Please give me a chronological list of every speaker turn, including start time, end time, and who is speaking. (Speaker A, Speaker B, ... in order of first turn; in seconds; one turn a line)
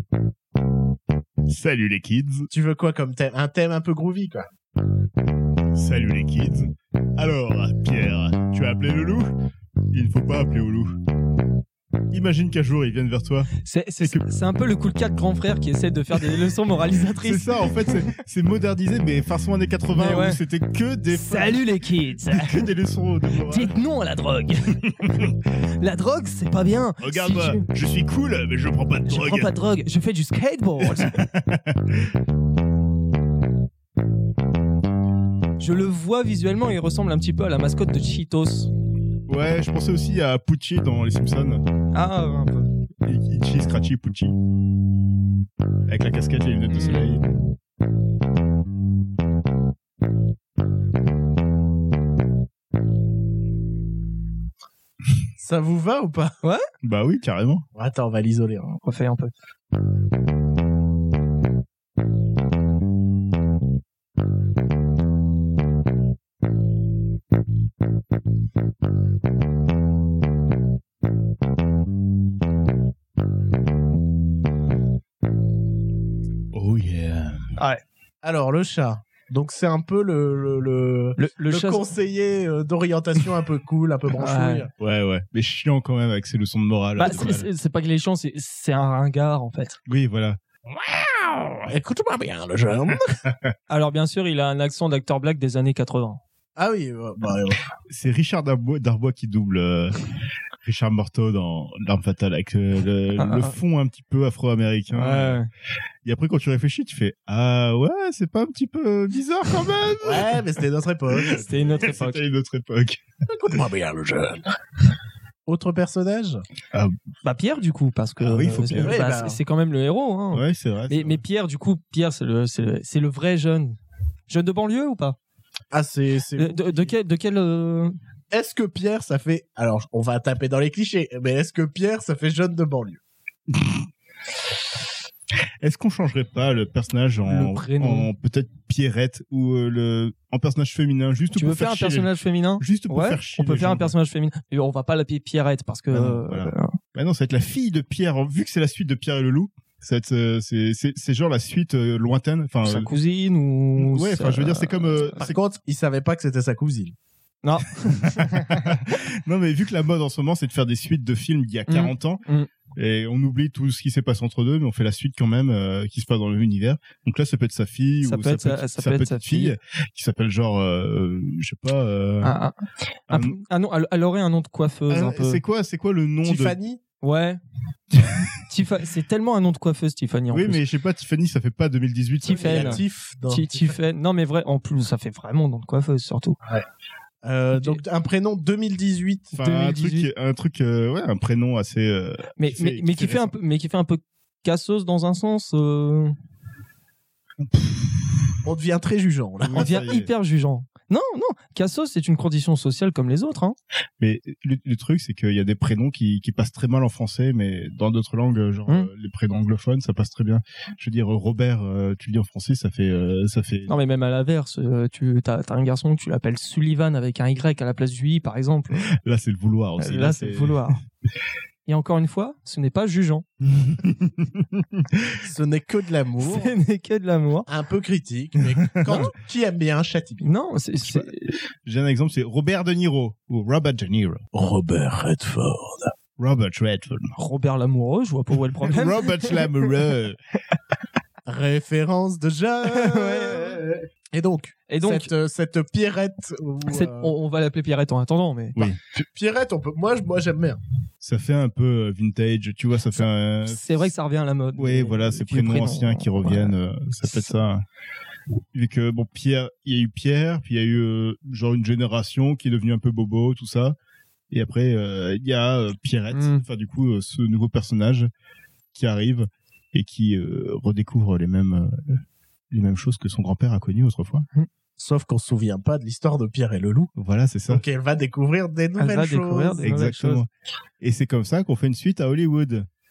Speaker A: 1.5-2.5
Speaker B: 2.5-4.5
Speaker A: 5.8-9.3
Speaker A: 9.9-11.0
Speaker A: 12.1-14.3
Speaker C: 13.7-18.1
Speaker A: 17.2-21.6
Speaker C: 19.9-20.4
Speaker C: 21.1-22.7
Speaker A: 22.3-23.8
Speaker C: 23.4-27.7
Speaker A: 25.0-25.3
Speaker A: 27.0-29.5
Speaker C: 29.1-31.3
Speaker A: 30.8-32.1
Speaker C: 35.6-38.7
Speaker A: 39.3-41.6
Speaker C: 41.9-42.7
Speaker A: 43.0-44.4
Speaker A: 45.9-47.3
Speaker C: 46.7-47.2
Speaker B: 55.4-56.4
Speaker A: 56.8-57.7
Speaker B: 57.8-58.8
Speaker C: 58.8-59.3
Speaker A: 76.5-77.5
Speaker C: 77.6-77.8
Speaker B: 78.2-84.7
Speaker C: 81.2-81.9
Speaker C: 84.2-84.7
Speaker A: 84.8-87.5
Speaker C: 87.0-89.8
Speaker A: 89.9-90.4
Speaker B: 91.7-93.2
Speaker C: 93.7-96.2
Speaker B: 96.6-97.7
Speaker A: 97.9-100.0
Speaker A: 100.6-105.4
Speaker C: 103.2-103.5
Speaker C: 104.9-105.5
Speaker A: 106.0-110.4
Speaker B: 110.0-111.7
Speaker C: 111.3-112.2
Speaker A: 111.4-113.0
Speaker B: 113.3-114.5
Speaker B: 115.5-116.4
Speaker C: 117.2-123.8
Speaker A: 118.2-119.0
Speaker B: 118.8-119.4
Speaker A: 120.3-121.2
Speaker C: 124.3-125.2
Speaker B: 125.7-127.0
Speaker C: 126.4-128.0
Speaker B: 128.3-133.0
Speaker A: 135.6-143.9
Speaker C: 137.3-138.1
Speaker C: 141.3-146.7
Speaker A: 145.9-152.9
Speaker C: 152.6-155.2
Speaker A: 153.8-155.4
Speaker B: 155.2-156.9
Speaker C: 157.4-158.7
Speaker A: 158.0-162.2
Speaker C: 161.7-162.5
Speaker A: 162.8-172.4
Speaker C: 168.0-169.6
Speaker C: 172.2-172.6
Speaker A: 173.1-173.4
Speaker C: 173.1-175.4
Speaker A: 174.9-176.6
Speaker B: 176.2-176.8
Speaker C: 177.0-177.4
Speaker C: 178.5-180.6
Speaker A: 180.3-182.8
Speaker C: 182.2-186.4
Speaker B: 182.3-183.8
Speaker B: 187.2-189.4
Speaker C: 187.6-187.8
Speaker A: 189.3-193.3
Speaker C: 189.4-190.1
Speaker C: 192.4-196.2
Speaker A: 197.4-198.0
Speaker B: 198.4-199.8
Speaker A: 199.4-200.1
Speaker C: 199.6-203.6
Speaker A: 204.0-213.8
Speaker C: 213.7-218.9
Speaker A: 219.0-220.7
Speaker C: 219.8-220.8
Speaker C: 221.7-223.2
Speaker A: 223.6-225.0
Speaker B: 225.2-226.5
Speaker C: 226.2-227.5
Speaker B: 227.5-230.3
Speaker C: 228.9-229.1
Speaker C: 230.2-231.4
Speaker A: 230.8-231.1
Speaker A: 231.7-234.2
Speaker B: 234.3-235.9
Speaker A: 236.2-237.1
Speaker C: 237.2-239.6
Speaker A: 238.7-240.2
Speaker B: 241.3-243.6
Speaker C: 242.6-243.7
Speaker B: 244.1-247.1
Speaker C: 244.7-245.1
Speaker C: 246.7-248.7
Speaker B: 248.9-250.6
Speaker A: 251.0-253.9
Speaker C: 253.0-257.3
Speaker A: 254.6-257.6
Speaker A: 258.5-263.8
Speaker A: 264.3-268.1
Speaker C: 266.1-266.4
Speaker A: 268.7-274.3
Speaker B: 274.8-276.9
Speaker A: 277.0-277.6
Speaker B: 277.5-279.6
Speaker C: 278.8-280.2
Speaker A: 279.6-280.3
Speaker A: 280.8-282.7